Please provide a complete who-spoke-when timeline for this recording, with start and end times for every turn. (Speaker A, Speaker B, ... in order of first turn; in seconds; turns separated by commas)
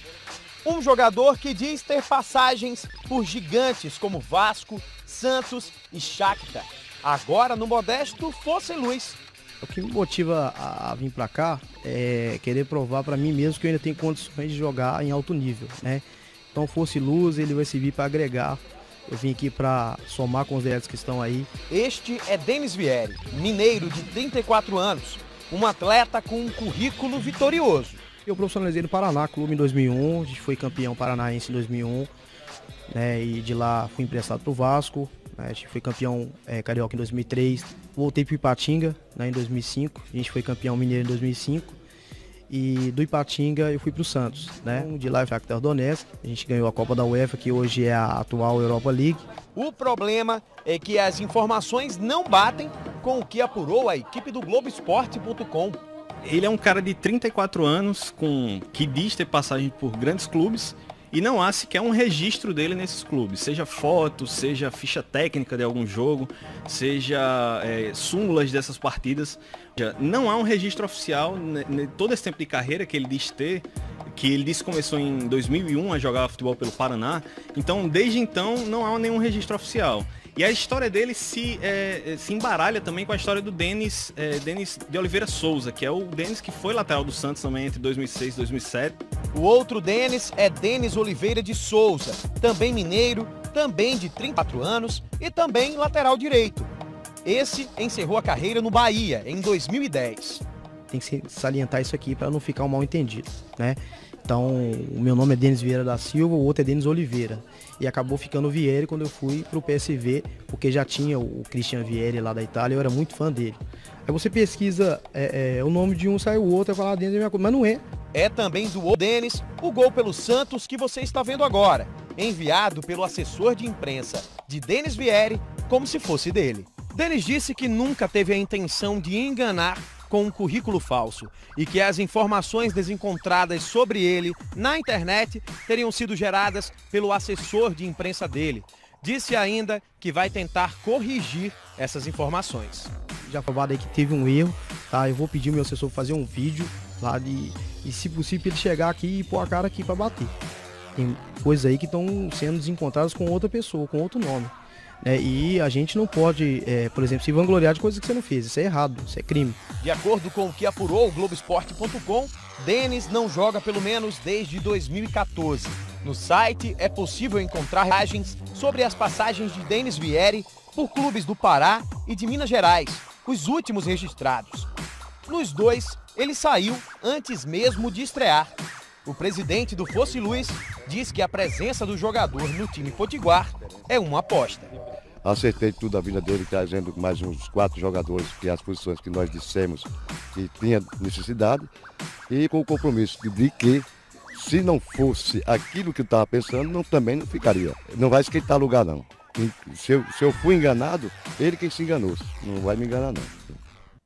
Speaker A: 0.6-9.2, Speaker B: 9.6-21.5, Speaker A: 21.7-28.0, Speaker B: 28.3-32.1, Speaker B: 32.9-41.8, Speaker B: 42.5-49.3, Speaker A: 49.5-55.8, Speaker C: 56.2-89.0, Speaker A: 89.3-96.7, Speaker A: 97.2-100.4, Speaker B: 100.9-117.8, Speaker A: 118.1-142.9, Speaker B: 143.2-150.3, Speaker B: 151.0-154.5, Speaker B: 155.0-159.6, Speaker A: 159.8-174.7, Speaker A: 175.3-178.5, Speaker A: 179.1-184.7, Speaker D: 185.2-191.7, Speaker D: 192.3-203.6